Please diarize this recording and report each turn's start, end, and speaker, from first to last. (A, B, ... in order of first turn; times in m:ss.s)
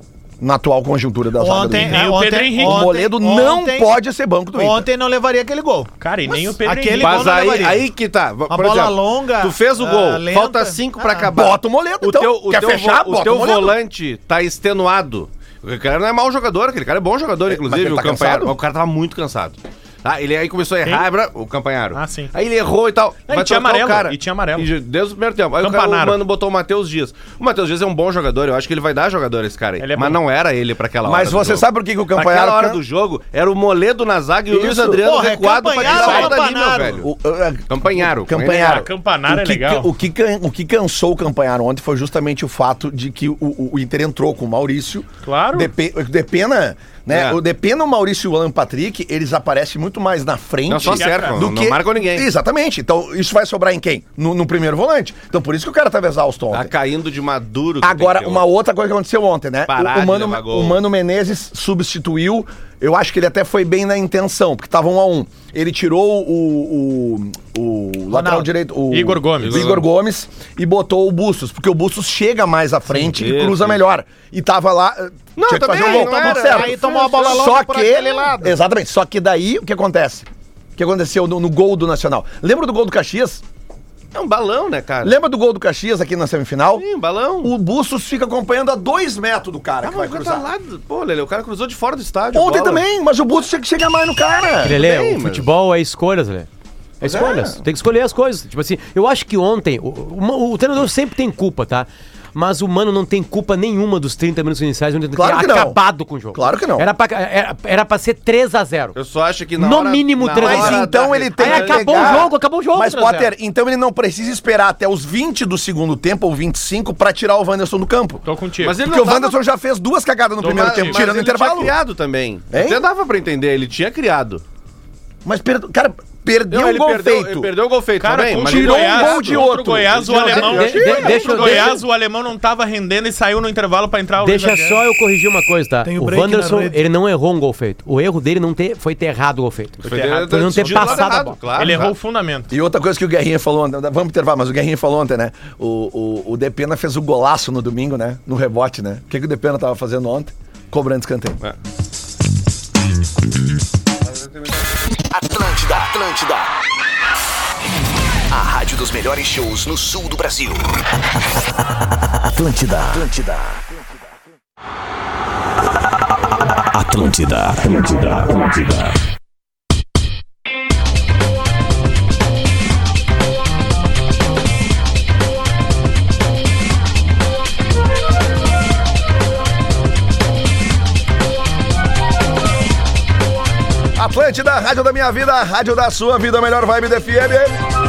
0:00.4-0:02.0 A
0:01.4-0:04.0 B
0:01.7-0:02.9 C
0:02.6-0:04.9 A
0:04.5-0:05.9 B
0:06.0-0:07.3 C
0:06.6-0:07.9 B
0:07.0-0:37.1 D
0:08.5-0:11.3 B
0:11.3-0:13.8 A
0:17.5-0:18.5 A
0:21.9-0:22.3 C
0:23.3-0:24.7 C
0:25.6-0:26.2 C
0:29.8-0:30.2 C
0:31.0-0:32.8 A
0:34.5-0:35.0 A
0:35.0-0:37.0 B
0:35.8-0:36.4 A
0:35.9-0:36.2 C
0:36.9-0:56.7 A
0:37.7-0:38.9 D
0:38.5-0:39.9 C
0:45.2-0:45.7 C
0:47.1-0:47.4 D
0:50.7-0:52.2 D
0:50.9-0:51.4 C
0:56.5-0:58.4 D
0:57.8-1:23.4 A
0:59.7-1:00.8 D
1:08.1-1:08.5 B
1:08.9-1:09.8 C
1:09.4-1:09.8 D
1:13.1-1:13.8 D
1:15.4-1:17.4 D
1:15.7-1:18.5 B
1:24.1-1:25.1 D
1:25.0-1:26.8 A
1:26.8-1:27.5 D
1:27.4-1:30.5 A
1:29.8-1:32.8 D
1:32.3-1:34.8 A
1:34.6-1:36.5 E
1:34.7-1:35.5 D
1:37.0-1:49.0 E
1:37.0-1:37.6 A
1:45.1-1:45.8 A
1:46.3-1:46.8 A
1:48.9-1:52.2 D
1:49.6-1:53.3 E
1:50.4-1:58.2 A
1:58.2-1:58.8 C
1:58.6-1:59.4 D
1:58.8-2:01.7 A
2:00.4-2:01.0 C
2:00.4-2:04.4 D
2:02.5-2:02.8 A
2:05.2-2:07.5 A
2:06.5-2:10.6 D
2:08.0-2:14.8 C
2:08.4-2:11.8 A
2:10.1-2:10.9 B
2:10.4-2:11.7 E
2:14.2-2:21.4 E
2:15.8-2:16.8 B
2:19.8-2:21.9 D
2:19.8-2:21.0 C
2:21.5-2:22.5 C
2:22.5-2:31.4 A
2:35.1-2:36.5 A
2:38.3-2:40.6 A
2:42.3-2:43.6 F
2:45.7-2:49.0 F
3:03.9-3:07.6 A